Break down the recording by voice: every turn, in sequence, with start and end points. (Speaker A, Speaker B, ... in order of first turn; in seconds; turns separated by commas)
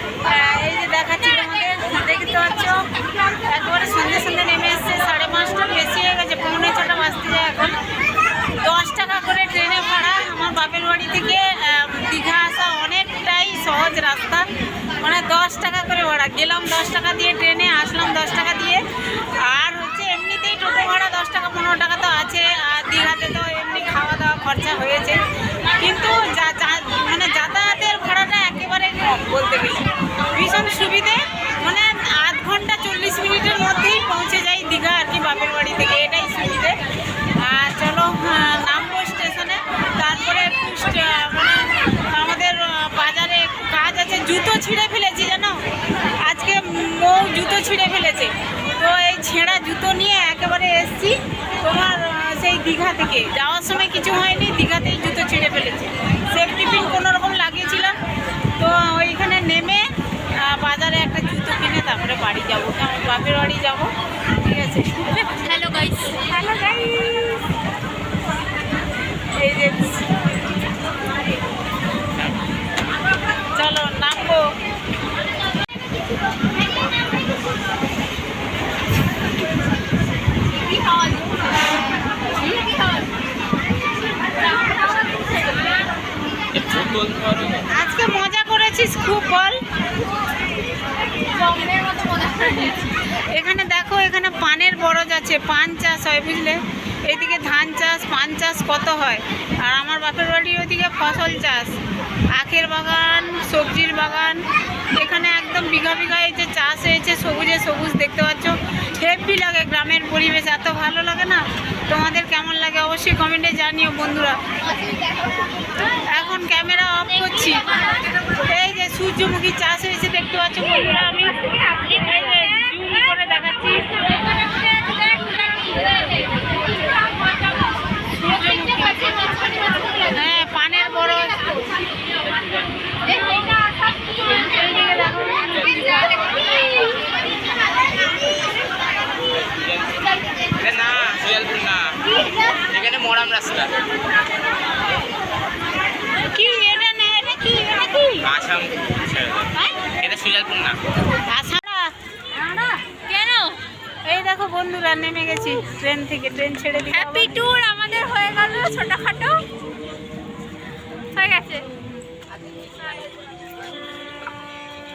Speaker A: 0.2-7.8, Speaker A: 8.6-18.8, Speaker A: 19.4-25.2, Speaker A: 25.7-36.8, Speaker A: 37.4-45.6, Speaker A: 46.2-58.0, Speaker A: 58.6-65.1, Speaker B: 65.0-66.3, Speaker A: 66.2-67.4, Speaker A: 69.4-70.0, Speaker A: 73.5-74.5, Speaker B: 84.6-84.9, Speaker C: 86.5-87.7, Speaker A: 87.7-89.6, Speaker B: 91.4-92.8, Speaker A: 93.3-101.8, Speaker A: 102.3-114.4, Speaker A: 116.1-117.7, Speaker A: 118.4-124.0, Speaker A: 128.1-129.3, Speaker A: 129.9-131.7, Speaker A: 134.4-135.9, Speaker C: 139.6-139.9, Speaker C: 140.6-141.9, Speaker C: 142.7-143.7, Speaker A: 146.2-148.3, Speaker C: 148.2-150.8, Speaker A: 151.2-151.9, Speaker B: 152.4-153.6, Speaker A: 154.0-157.4, Speaker B: 156.9-159.4, Speaker B: 161.1-161.7